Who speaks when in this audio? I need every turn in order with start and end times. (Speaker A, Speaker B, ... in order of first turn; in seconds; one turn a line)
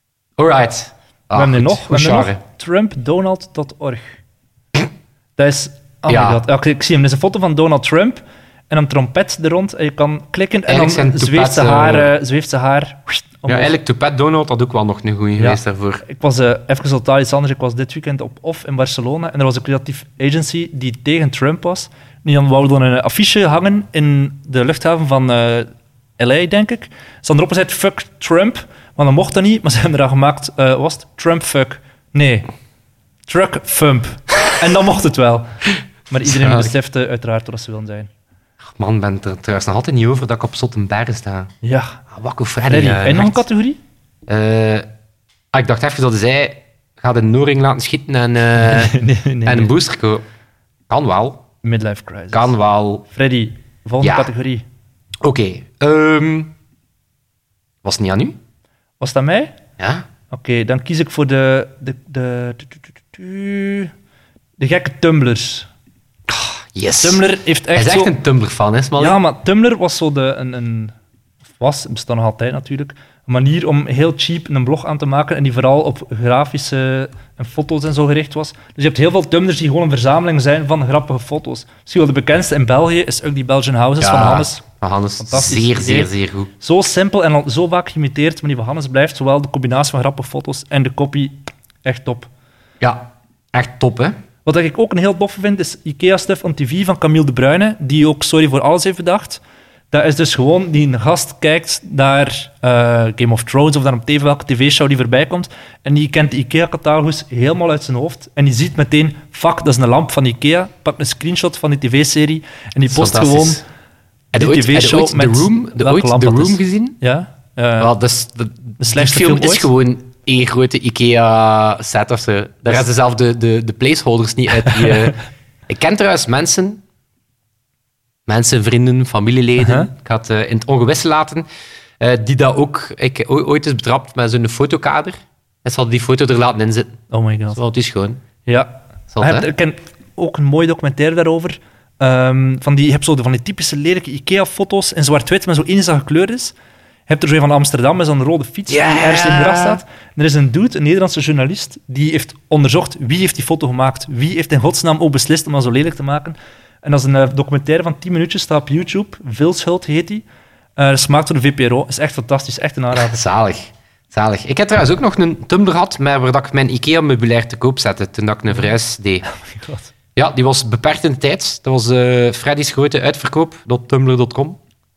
Speaker A: 0.4-2.4
Speaker B: 1.3-4.2
Speaker B: 5.4-13.7
Speaker A: 6.1-6.4
Speaker A: 10.7-12.1
Speaker A: 13.5-16.0
Speaker B: 15.4-32.5
Speaker B: 33.3-38.1
Speaker A: 36.2-36.7
Speaker A: 38.6-41.5
Speaker B: 41.6-42.0
Speaker A: 42.1-43.4
Speaker B: 42.6-43.8
Speaker A: 44.3-44.9
Speaker A: 45.5-50.2
Speaker B: 48.6-49.7
Speaker A: 50.9-51.4
Speaker B: 51.6-52.5
Speaker A: 52.3-53.0
Speaker B: 53.0-54.6
Speaker A: 54.0-54.3
Speaker A: 55.2-56.5
Speaker A: 57.8-58.4
Speaker B: 59.0-59.5
Speaker A: 59.8-60.1
Speaker B: 60.3-63.9
Speaker B: 64.6-65.7
Speaker A: 66.3-67.2
Speaker B: 67.0-68.1
Speaker A: 67.8-69.2
Speaker B: 69.0-70.9
Speaker B: 71.6-84.6
Speaker A: 84.0-86.5
Speaker B: 85.2-92.3
Speaker A: 92.8-94.2
Speaker B: 94.4-99.4
Speaker B: 99.9-113.6
Speaker A: 112.9-113.6
Speaker A: 114.3-117.0
Speaker B: 114.3-117.9
Speaker A: 117.8-126.8
Speaker B: 118.8-119.7
Speaker B: 124.7-125.1
Speaker A: 128.3-131.4
Speaker B: 129.6-129.9
Speaker A: 132.0-137.0
Speaker B: 137.1-137.6
Speaker A: 137.5-138.2
Speaker B: 138.5-146.6
Speaker A: 139.1-139.5
Speaker B: 147.1-160.2
Speaker A: 148.7-149.8
Speaker B: 160.8-163.2
Speaker A: 162.9-169.2
Speaker B: 169.3-169.9
Speaker A: 170.2-174.6